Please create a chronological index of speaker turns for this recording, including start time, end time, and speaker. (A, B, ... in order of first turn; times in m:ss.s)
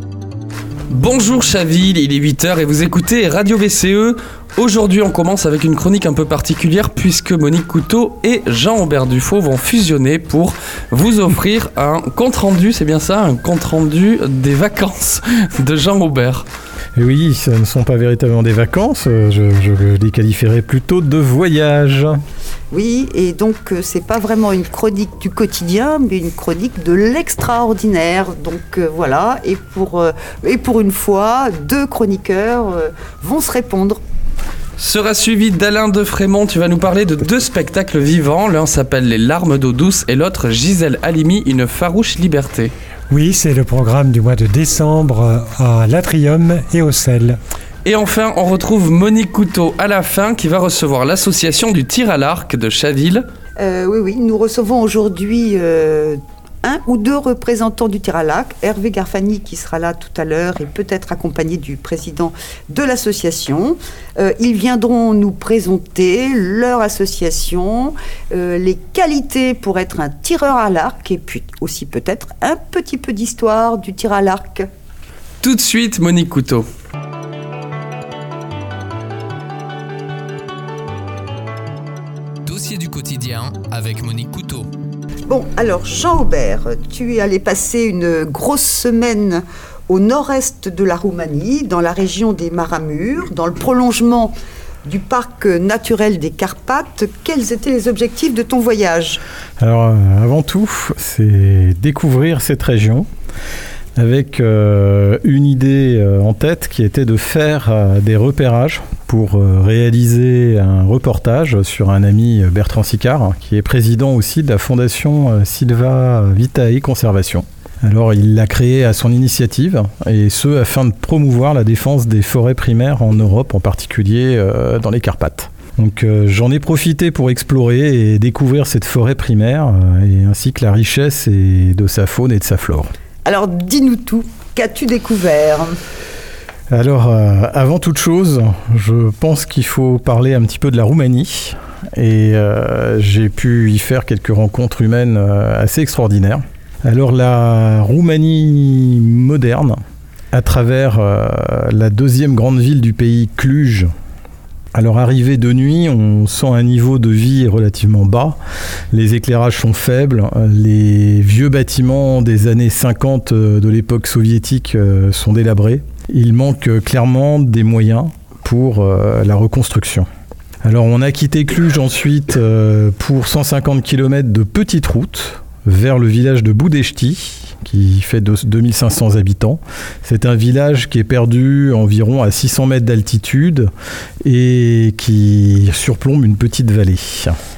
0:00.9-0:16.5 A
0:17.0-0:22.2 B
0:22.7-0:34.0 C
0:34.8-0:42.7 A
0:43.1-0:47.4 D
0:47.8-0:53.2 A
0:53.6-1:14.7 C
1:15.4-1:16.7 A
1:22.4-1:24.7 E
1:25.3-1:34.3 C
1:34.8-1:39.2 C
1:39.6-1:43.1 B
1:44.0-2:12.9 B
2:13.2-2:15.8 C
2:16.7-2:29.8 B
2:30.3-2:33.9 B
2:34.7-2:38.4 B
2:38.9-2:50.1 B
2:50.6-3:03.7 B
3:04.2-3:07.4 B